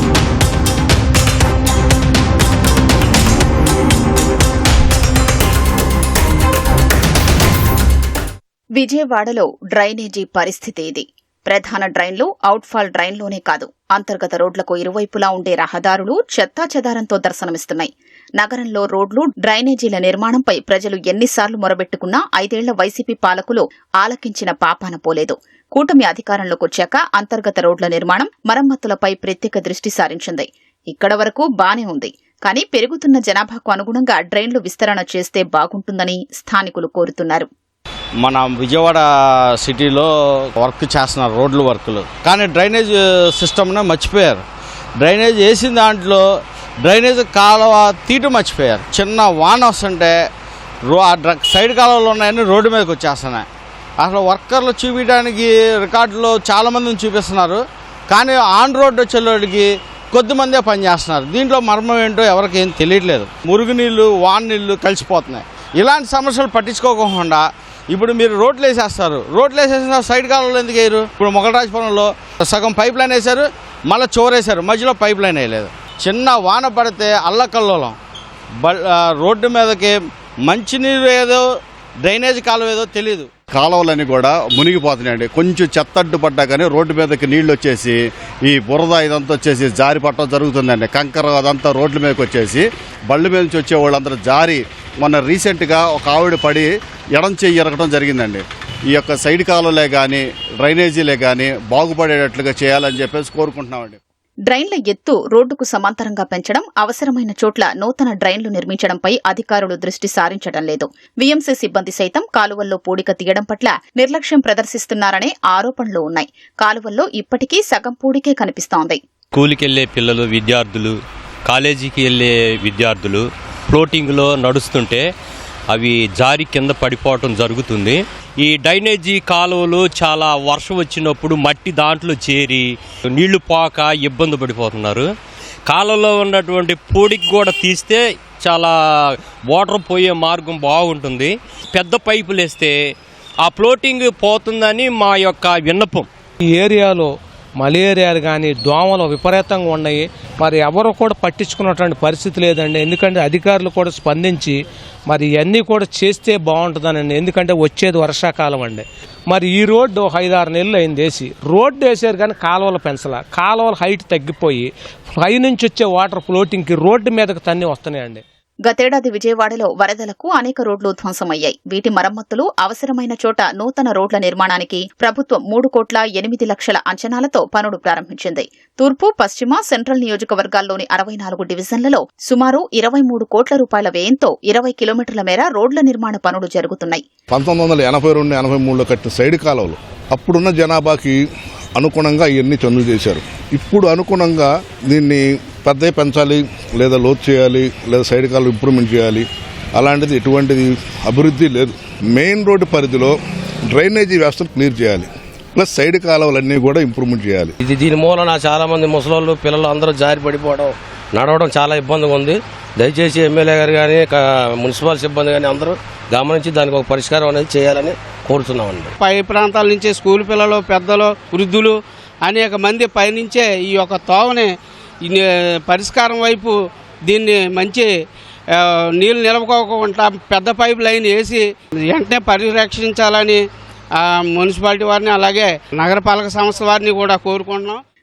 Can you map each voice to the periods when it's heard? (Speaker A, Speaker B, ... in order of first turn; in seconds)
Speaker A: 8.7-37.5, 104.5-119.0, 168.7-187.0
Speaker B: 38.2-44.4, 45.0-46.2, 46.8-50.2, 50.9-53.5, 54.0-78.0, 78.6-81.5, 82.0-83.3
Speaker C: 83.5-88.0, 88.5-98.4, 98.9-104.0
Speaker D: 119.3-125.1, 125.7-135.1, 135.7-142.7, 143.4-146.1
Speaker E: 146.5-168.2
Speaker F: 187.3-191.2, 191.8-203.2, 203.7-207.6
Speaker G: 207.6-218.9
Speaker H: 219.0-227.9, 228.5-237.8